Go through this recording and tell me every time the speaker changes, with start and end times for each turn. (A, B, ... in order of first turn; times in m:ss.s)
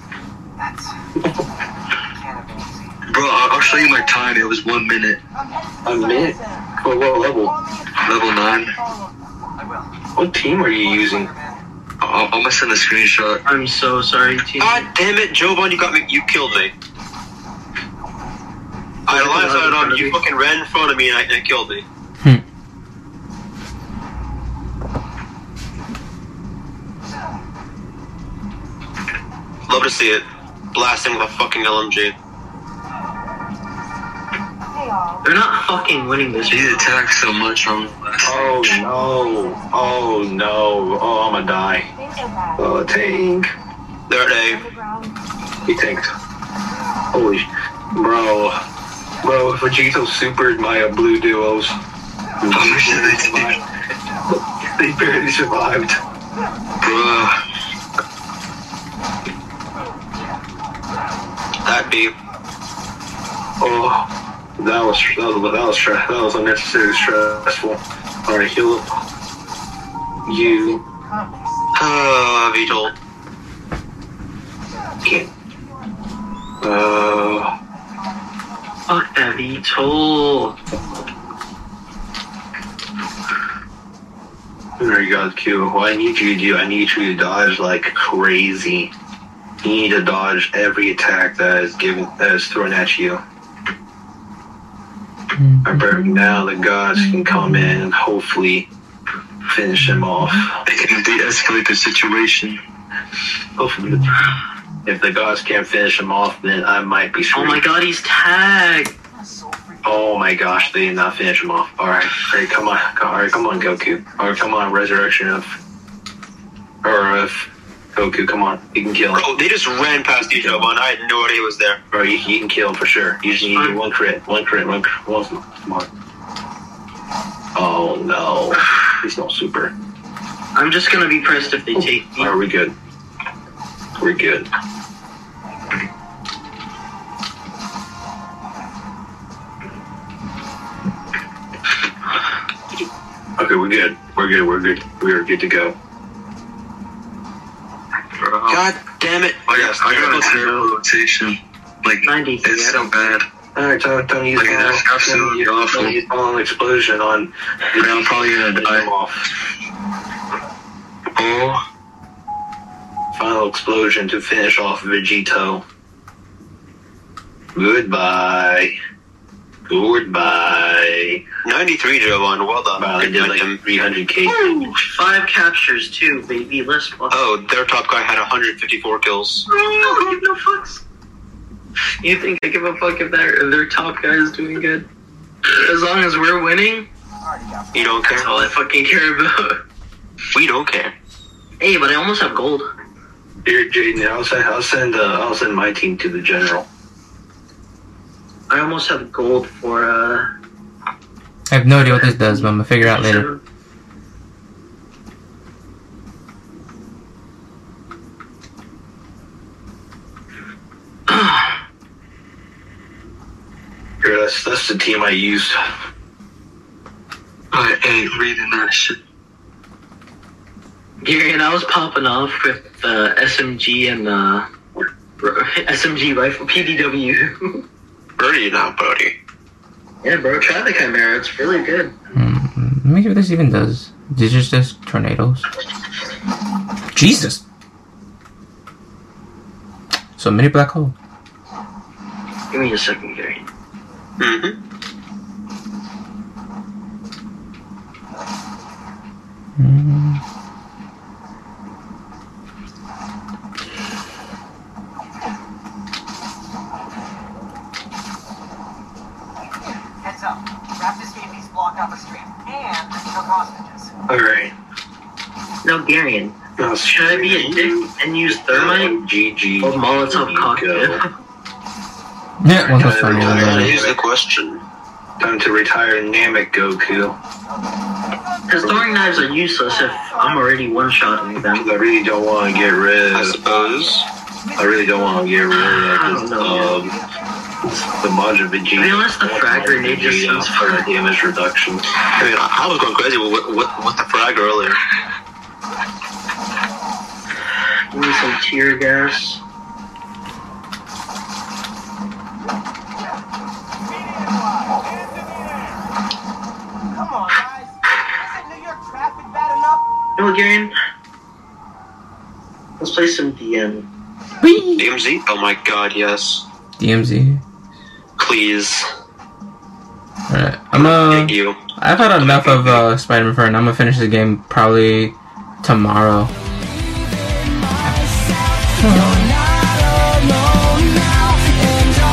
0:01.2-0:01.5 A
0:03.1-0:05.2 B
0:05.8-0:07.6 A
0:08.0-0:08.8 B
0:10.2-0:11.3 A
0:12.0-0:13.4 B
0:13.5-0:14.9 C
0:14.6-0:16.7 D
0:19.1-0:21.8 D
0:19.1-0:20.2 C
0:29.7-0:32.2 D
0:35.2-0:36.9 C
0:36.5-0:38.8 B
0:38.2-0:41.9 A
0:42.6-0:43.5 A
0:44.1-0:44.7 D
0:45.7-0:46.1 A
0:47.1-0:48.6 A
0:49.2-0:51.8 A
0:52.4-0:53.6 A
0:52.5-0:53.6 B
0:54.6-0:56.0 A
0:56.8-0:57.4 B
1:01.6-1:02.1 D
1:03.6-1:08.9 A
1:10.2-1:10.8 A
1:11.8-1:12.9 D
1:15.0-1:15.3 A
1:16.6-1:17.5 A
1:18.9-1:20.6 C
1:24.8-1:28.9 A
1:29.6-1:33.2 A
1:35.4-1:36.4 E
1:35.6-1:38.7 A
1:37.0-1:37.8 E
1:39.5-1:40.6 A
1:40.6-1:42.6 B
1:43.6-1:44.2 A
1:44.8-1:47.6 A
1:47.3-1:49.0 C
1:49.8-1:55.6 A
1:56.8-1:59.2 A
1:59.1-2:01.8 D
2:00.2-2:00.7 A
2:01.9-2:05.9 A
2:03.4-2:03.8 C
2:07.6-2:09.7 A
2:10.6-2:12.4 C
2:11.8-2:12.8 A
2:14.0-2:14.5 A
2:23.4-2:25.8 A
2:28.2-2:28.7 B
2:28.5-2:30.5 D
2:29.5-2:33.3 B
2:32.0-2:32.8 C
2:33.6-2:39.3 A
2:34.4-2:36.0 B
2:37.8-2:38.9 B
2:41.2-2:41.6 B
2:43.1-2:45.6 A
2:47.6-2:48.8 A
2:49.7-2:51.2 A
2:51.4-2:53.6 D
2:52.8-2:54.8 A
2:54.2-2:57.2 C
2:57.1-2:59.5 D
2:59.5-3:00.8 C
3:02.0-3:04.9 C
3:05.5-3:06.9 C
3:07.7-3:08.3 D
3:08.1-3:09.6 C
3:10.3-3:10.9 D
3:11.6-3:12.7 C
3:13.4-3:16.7 A
3:18.5-3:20.3 C
3:21.5-3:23.3 E
3:21.8-3:23.4 C
3:31.1-3:31.5 C
3:34.0-3:35.6 A
3:37.5-3:39.0 B
3:41.0-3:44.5 C
3:45.2-3:47.6 C
3:48.2-3:49.2 D
3:50.0-3:52.0 C
3:52.2-3:55.5 E
3:56.9-3:57.4 E
4:00.2-4:00.9 E
4:02.5-4:03.5 C
4:04.2-4:04.6 D
4:09.6-4:10.2 E
4:20.2-4:23.8 F
4:24.1-4:24.5 A
4:25.6-4:26.4 C
4:26.6-4:31.0 A
4:26.9-4:29.0 C
4:27.3-4:27.6 D
4:29.6-4:31.0 C
4:32.4-4:33.8 E
4:32.5-4:34.0 A
4:33.1-4:34.6 D
4:35.2-4:37.2 A
4:38.5-4:41.7 C
4:38.6-4:39.2 A
4:41.4-4:43.4 A
4:43.1-4:44.1 D
4:44.6-4:47.0 A
4:45.5-4:46.9 C
4:47.6-4:51.9 A
4:48.8-4:50.9 C
4:52.1-4:54.8 D
4:57.9-4:59.4 C
5:10.2-5:10.7 C
5:12.8-5:13.9 C
5:14.4-5:14.8 E
5:14.8-5:16.4 D
5:16.8-5:17.4 E
5:18.2-5:18.9 D
5:20.3-5:26.3 E
5:20.7-5:22.9 D
5:27.8-5:28.2 E
5:28.8-5:29.4 E